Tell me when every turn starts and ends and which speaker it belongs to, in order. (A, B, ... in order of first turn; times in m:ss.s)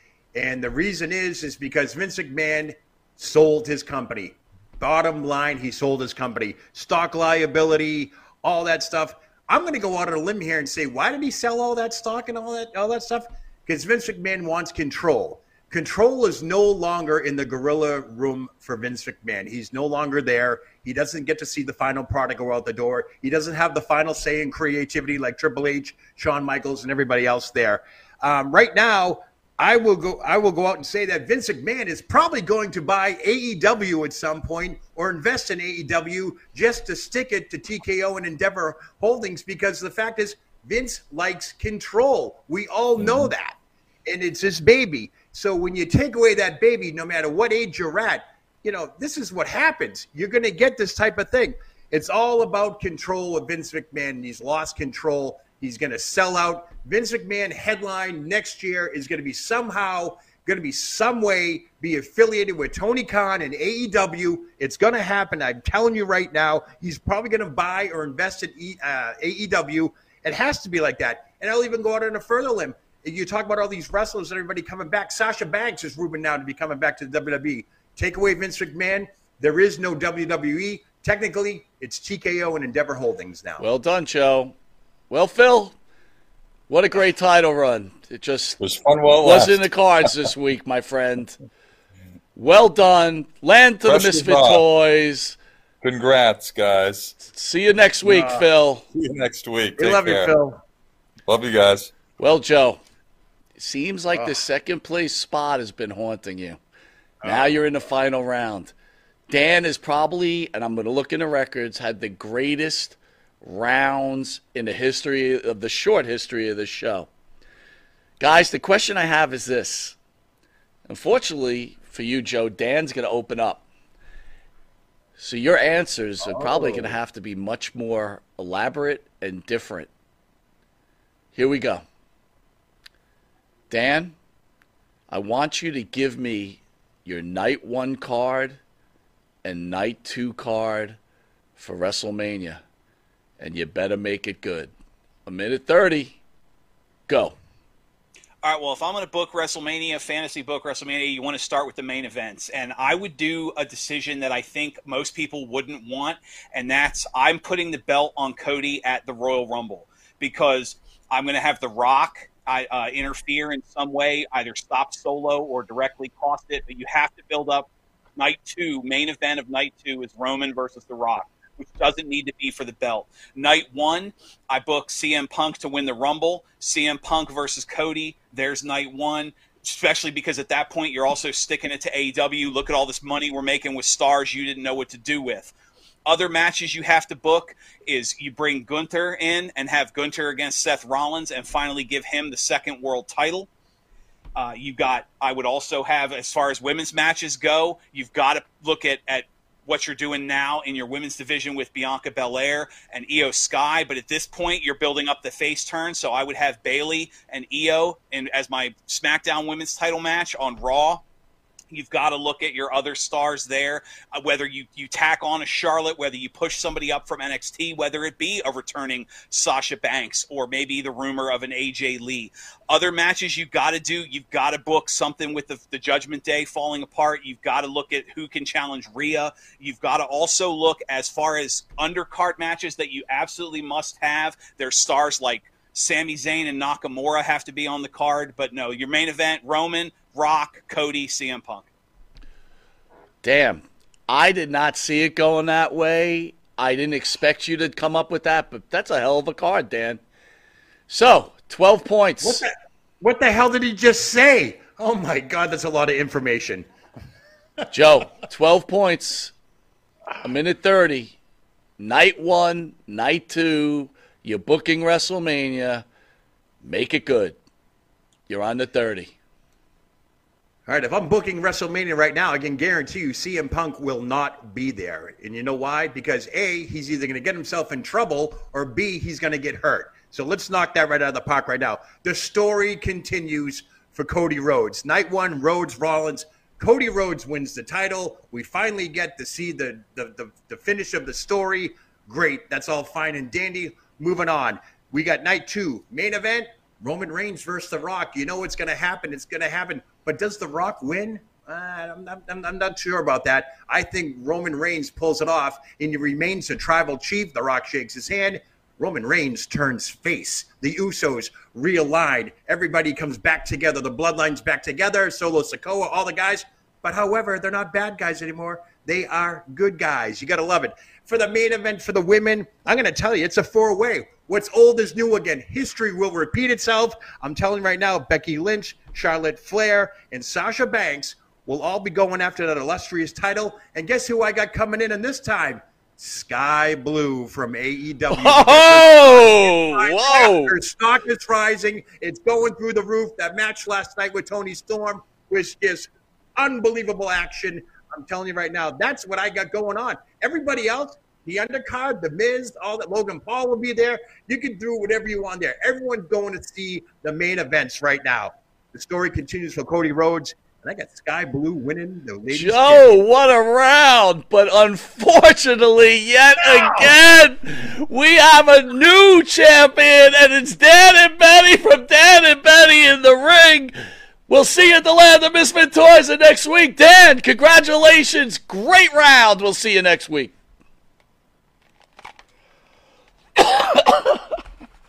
0:00.4-1:23.6 A
1:23.6-1:24.6 B
1:25.1-1:25.8 B
1:26.7-1:28.6 B
1:28.6-1:29.7 C
1:29.2-1:31.4 B
1:32.4-1:35.4 B
1:33.9-1:34.6 C
1:35.8-1:37.2 C
1:37.2-1:38.8 B
1:38.0-1:38.5 A
1:38.9-1:40.3 C
1:39.8-1:40.6 A
1:41.3-1:41.9 C
1:42.2-1:42.8 B
1:43.6-1:46.6 B
1:47.2-1:47.6 A
1:47.2-1:48.7 B
1:49.3-1:57.1 B
1:58.2-2:00.0 B
2:00.9-2:03.6 B
2:05.2-2:09.9 B
2:06.3-2:06.9 A
2:11.4-2:11.8 B
2:13.7-2:14.2 B
2:15.1-2:18.6 B
2:19.4-2:21.0 B
2:21.6-2:22.6 B
2:23.4-2:24.7 B
2:25.3-2:26.2 B
2:27.1-2:27.4 B
2:28.4-3:05.5 D
3:06.1-3:13.5 D
3:14.4-3:31.0 D
3:31.7-4:01.7 D
4:03.2-4:10.0 B
4:10.9-4:12.4 B
4:12.2-4:12.5 A
4:13.0-4:16.7 A
4:17.7-4:19.3 B
4:20.2-4:21.2 B
4:21.8-4:25.8 B
4:26.6-4:27.4 B
4:28.3-4:29.1 B
4:30.7-6:03.0 A
5:38.1-5:40.5 B
6:02.3-6:20.3 B
6:23.4-6:23.8 B